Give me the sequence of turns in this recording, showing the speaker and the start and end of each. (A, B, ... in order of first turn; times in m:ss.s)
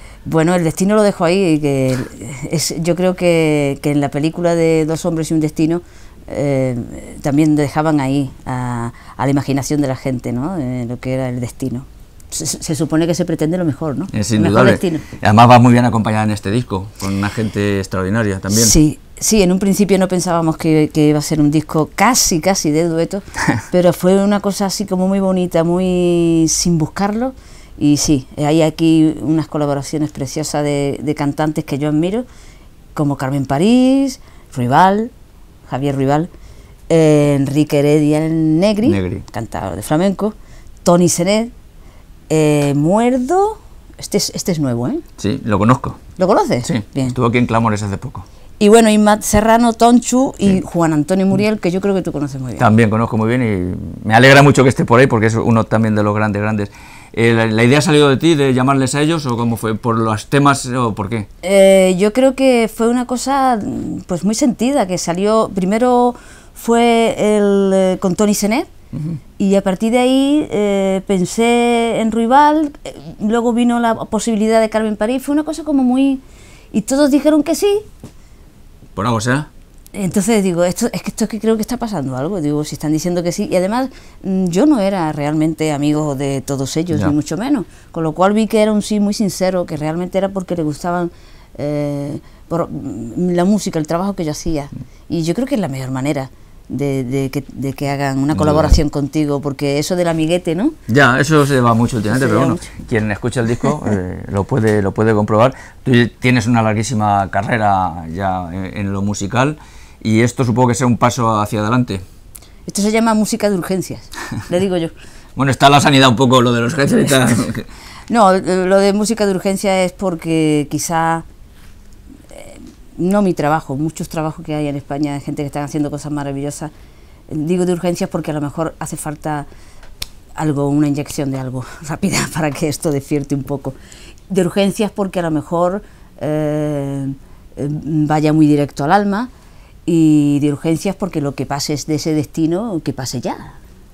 0:00.2-0:15.0 A
0:14.1-0:18.8 B
0:18.5-0:32.2 A
0:32.9-0:35.1 A
0:35.7-0:36.3 A
0:36.9-0:41.5 A
0:38.8-0:39.2 B
0:42.3-0:45.0 A
0:45.2-0:46.0 B
0:46.2-0:47.1 A
0:46.6-0:48.2 B
0:48.6-0:52.7 A
0:52.6-1:01.3 B
1:01.4-1:08.7 A
1:09.4-1:17.8 A
1:19.0-1:19.5 B
1:19.9-1:40.8 A
1:38.3-1:38.8 B
1:40.9-1:52.0 B
1:42.1-1:42.6 A
1:52.7-1:54.9 A
1:55.4-1:57.7 B
1:58.1-2:01.2 A
2:02.3-2:06.7 A
2:07.3-2:09.5 A
2:10.4-2:13.8 A
2:14.3-2:19.3 A
2:19.8-2:23.6 A